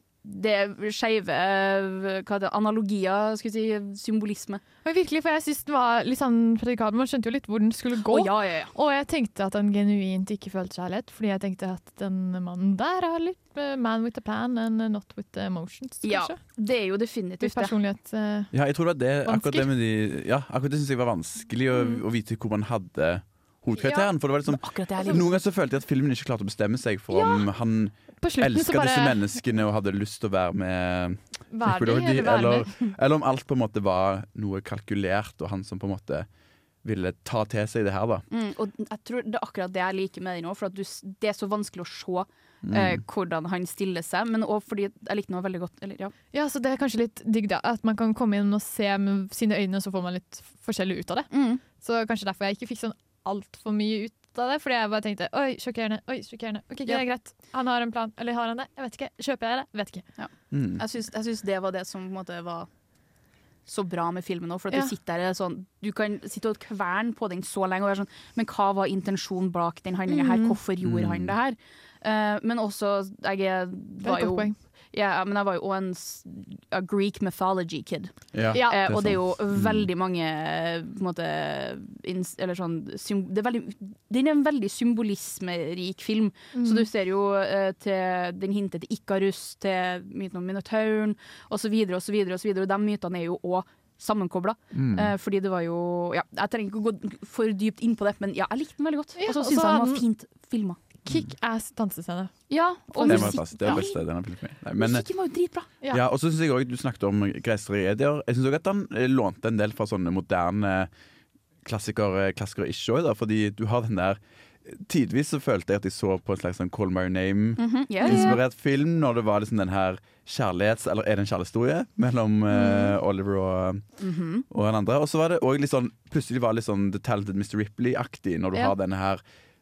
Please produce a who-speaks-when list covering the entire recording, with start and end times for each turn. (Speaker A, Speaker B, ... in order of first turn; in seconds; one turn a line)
Speaker A: 0.2-4.6
Speaker B: 4.8-16.4
Speaker A: 8.0-8.7
Speaker A: 16.0-17.7
Speaker B: 17.4-18.6
Speaker C: 18.5-36.3
Speaker B: 19.2-19.7
Speaker A: 21.7-22.0
Speaker B: 23.8-24.1
Speaker A: 24.4-25.4
Speaker B: 28.2-29.2
Speaker B: 31.5-32.9
Speaker C: 36.8-38.2
Speaker A: 38.3-46.1
Speaker C: 42.6-43.0
Speaker B: 46.3-60.1
Speaker A: 51.3-51.6
Speaker A: 60.2-62.7
Speaker C: 60.5-60.8
Speaker A: 63.7-100.8
Speaker B: 70.1-70.6
Speaker C: 70.8-71.3
Speaker B: 74.0-74.5
Speaker C: 78.3-79.9
Speaker B: 78.5-78.9
Speaker B: 86.5-86.9
Speaker C: 94.7-95.1
Speaker B: 99.2-100.0
Speaker B: 101.0-103.8
Speaker A: 102.5-105.7
Speaker C: 103.0-105.1
Speaker C: 105.9-110.9
Speaker C: 111.6-123.8
Speaker A: 117.6-118.4
Speaker B: 118.0-118.3
Speaker A: 122.5-122.9
Speaker A: 124.0-124.4
Speaker C: 124.5-129.2